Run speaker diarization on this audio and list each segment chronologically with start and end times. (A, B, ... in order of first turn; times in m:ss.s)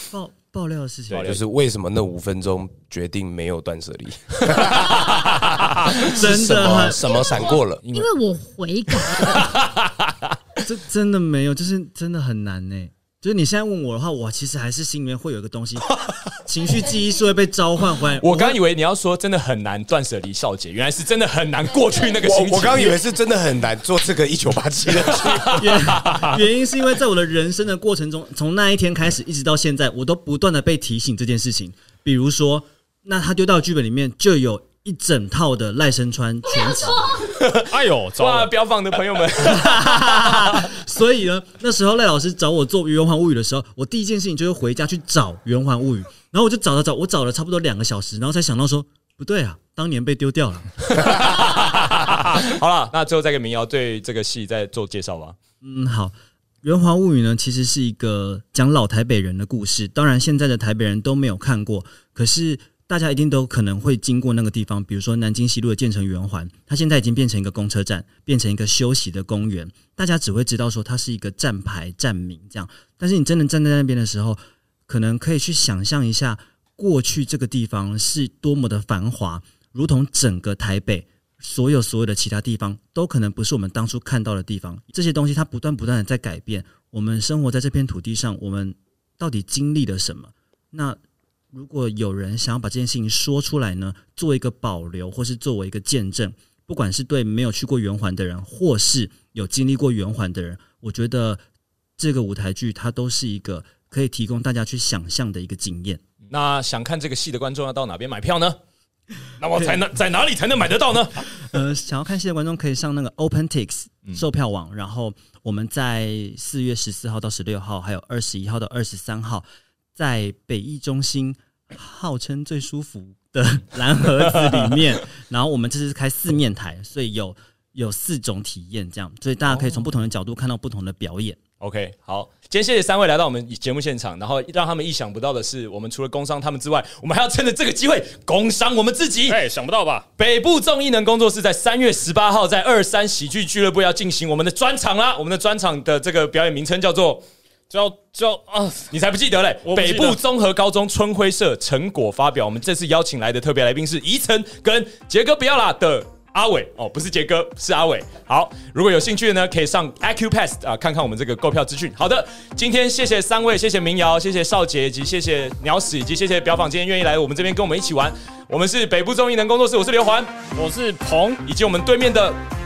0:00.1-0:01.4 A
0:01.1-0:01.4 B
0:01.2-0:07.8 C
0:04.4-0:06.1 B
0:06.0-0:07.2 A
0:06.8-0:09.7 D
0:07.8-0:08.1 B
0:09.1-0:10.6 B
0:10.6-0:18.6 A
0:18.2-0:23.1 B
0:22.2-0:25.7 C
0:25.1-0:26.2 B
0:25.6-0:37.2 A
0:36.5-0:37.4 D
0:37.3-0:40.7 B
0:37.6-0:38.5 E
0:39.4-0:51.2 A
0:50.9-0:55.4 B
0:55.6-1:31.0 A
1:31.5-1:41.4 A
1:42.0-1:46.0 A
1:46.3-1:48.6 B
1:49.4-1:51.4 B
1:51.4-1:59.4 A
2:00.0-2:11.4 A
2:11.6-2:19.4 B
2:19.3-2:20.1 E
2:20.2-2:27.2 B
2:27.7-2:28.9 E
2:28.9-2:50.4 B
2:29.6-2:30.2 E
2:50.5-2:51.4 E
2:51.4-2:52.4 B